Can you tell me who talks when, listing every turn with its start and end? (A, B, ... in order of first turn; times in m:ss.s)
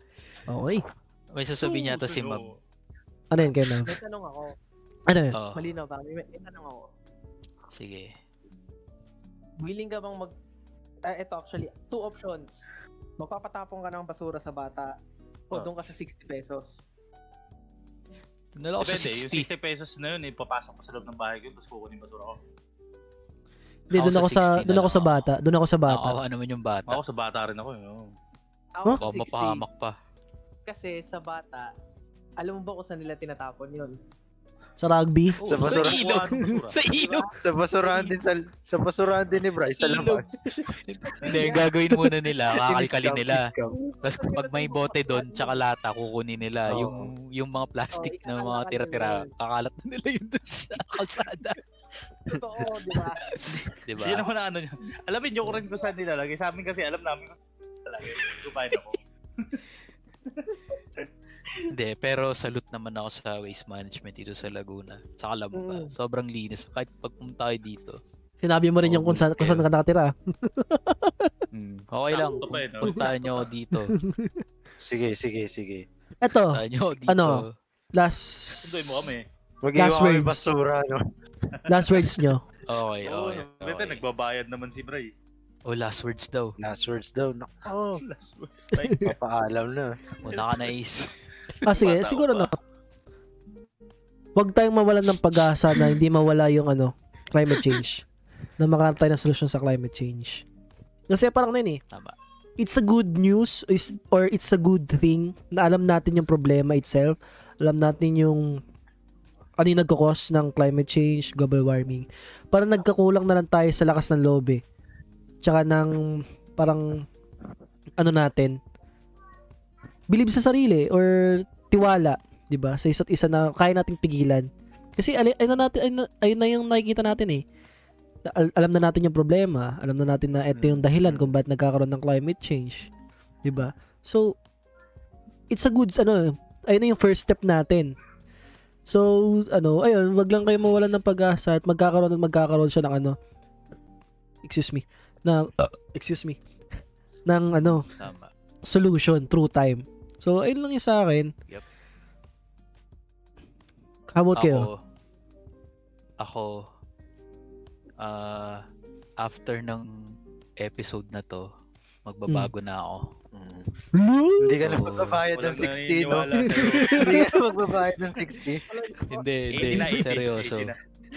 0:00.5-0:00.8 A
0:01.3-0:02.4 B
0:01.7-0:02.5 C
0:03.3-0:03.9 A
0:03.7-0:04.5 D
0:05.1-0:05.3 A
0:05.3-0:05.6 B
0:05.5-0:06.9 D
0:07.7-0:08.1 B
0:09.6-0:10.3 D
0:11.0-0:14.9 D
0:15.5-0:16.8 D
0:18.6-0:19.5 B
0:18.8-0:22.4 C
0:23.9-0:26.2 A
0:24.0-0:25.2 B
0:25.9-0:27.0 B
0:26.9-0:28.1 C
0:28.7-0:29.6 D
0:29.0-0:29.9 B
0:30.7-0:31.7 D
0:32.4-0:33.9 D
0:34.8-0:35.4 A
0:35.4-0:37.3 B
0:35.4-0:36.0 E
0:35.5-0:36.8 C
0:36.9-0:37.3 D
0:37.3-0:40.3 E
0:39.7-0:43.4 B
0:41.3-0:41.7 D
0:42.5-0:43.8 E
0:43.7-0:45.6 D
0:44.0-0:51.6 B
0:46.7-0:47.1 E
0:47.9-0:49.3 D
0:52.3-0:53.2 D
0:53.2-0:54.3 B
0:54.0-0:59.6 C
1:01.7-1:08.0 B
1:05.5-1:05.9 D
1:08.4-1:11.3 A
1:08.8-1:09.6 B
1:11.5-1:13.9 B
1:12.1-1:13.1 C
1:12.8-1:13.1 A
1:13.9-1:14.4 A
1:14.8-1:15.8 E
1:16.2-1:19.1 A
1:16.5-1:17.5 B
1:18.6-1:19.2 C
1:19.6-1:21.1 E
1:19.8-1:20.5 A
1:21.7-1:22.4 A
1:22.6-1:24.0 B
1:23.0-1:25.1 C
1:25.7-1:26.5 B
1:26.6-1:28.0 E
1:28.0-1:29.2 C
1:28.8-1:29.0 A
1:29.0-1:30.0 E
1:30.2-1:31.1 B
1:30.3-1:30.7 C
1:31.6-1:32.6 A
1:31.7-1:32.5 C
1:34.4-1:38.0 A
1:38.6-1:40.4 A
1:41.1-1:41.8 A
1:41.9-1:42.2 B
1:42.6-1:48.6 A
1:49.6-1:54.6 A
1:55.4-1:57.0 A
1:58.0-1:58.6 A
2:00.1-2:07.4 A
2:08.2-2:12.9 A
2:10.5-2:11.3 E
2:13.4-2:14.4 A
2:15.5-2:17.9 A
2:18.9-2:23.2 A
2:24.4-2:26.4 A
2:27.2-2:27.9 A
2:27.9-2:28.3 B
2:28.6-2:31.3 A
2:34.1-2:34.7 A
2:34.3-2:34.8 B
2:36.2-2:36.6 B
2:38.0-2:38.6 B
2:39.2-2:41.4 B
2:42.0-2:43.1 B
2:43.3-2:43.7 E
2:43.9-2:44.7 A
2:44.4-2:48.6 E
2:44.6-2:45.2 B
2:45.3-2:47.1 C
2:46.4-2:47.2 A
2:48.7-2:49.2 D
2:49.1-2:50.7 B
2:49.5-2:50.8 C